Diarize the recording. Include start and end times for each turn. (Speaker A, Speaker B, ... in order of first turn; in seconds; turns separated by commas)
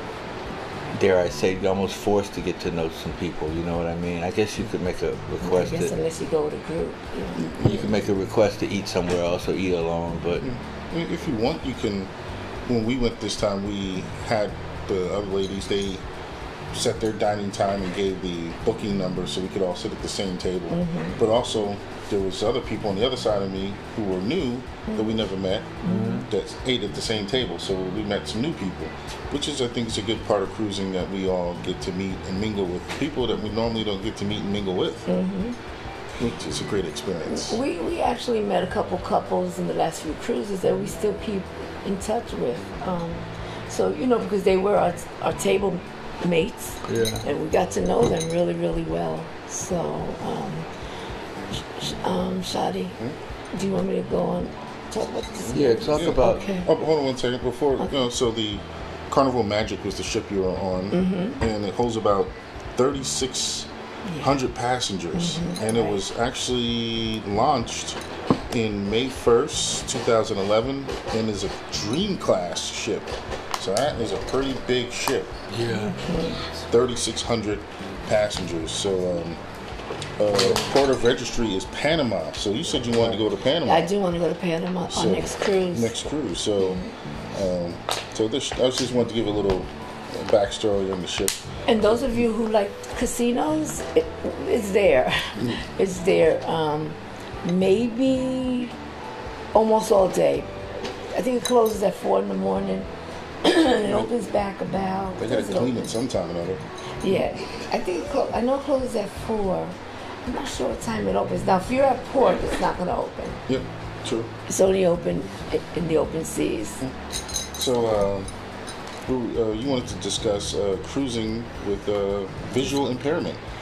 Speaker A: 0.9-5.9, Speaker B: 5.4-7.4, Speaker A: 7.4-10.5, Speaker C: 10.4-12.1, Speaker C: 12.7-16.0, Speaker C: 16.7-25.7, Speaker B: 20.7-21.2, Speaker B: 25.8-26.2, Speaker A: 25.9-26.2, Speaker C: 26.3-35.1, Speaker B: 35.1-35.5, Speaker C: 36.2-37.6, Speaker B: 37.3-50.7, Speaker A: 46.9-47.2, Speaker B: 51.7-53.0, Speaker B: 53.5-56.7, Speaker A: 55.5-56.5, Speaker C: 55.9-68.0, Speaker B: 60.9-61.4, Speaker B: 65.1-66.0, Speaker C: 68.5-75.3, Speaker A: 75.5-76.0, Speaker B: 75.7-76.4, Speaker C: 76.7-79.4, Speaker C: 80.2-83.9, Speaker A: 80.3-80.7, Speaker A: 83.0-83.2, Speaker B: 83.6-86.0, Speaker C: 84.9-91.4, Speaker B: 91.7-98.7, Speaker B: 99.5-100.5, Speaker B: 101.1-102.9, Speaker B: 103.4-106.0, Speaker C: 105.2-106.6, Speaker B: 107.0-109.7, Speaker B: 110.2-113.4, Speaker C: 113.5-114.3, Speaker B: 114.5-116.8, Speaker C: 117.5-118.3, Speaker C: 119.0-123.4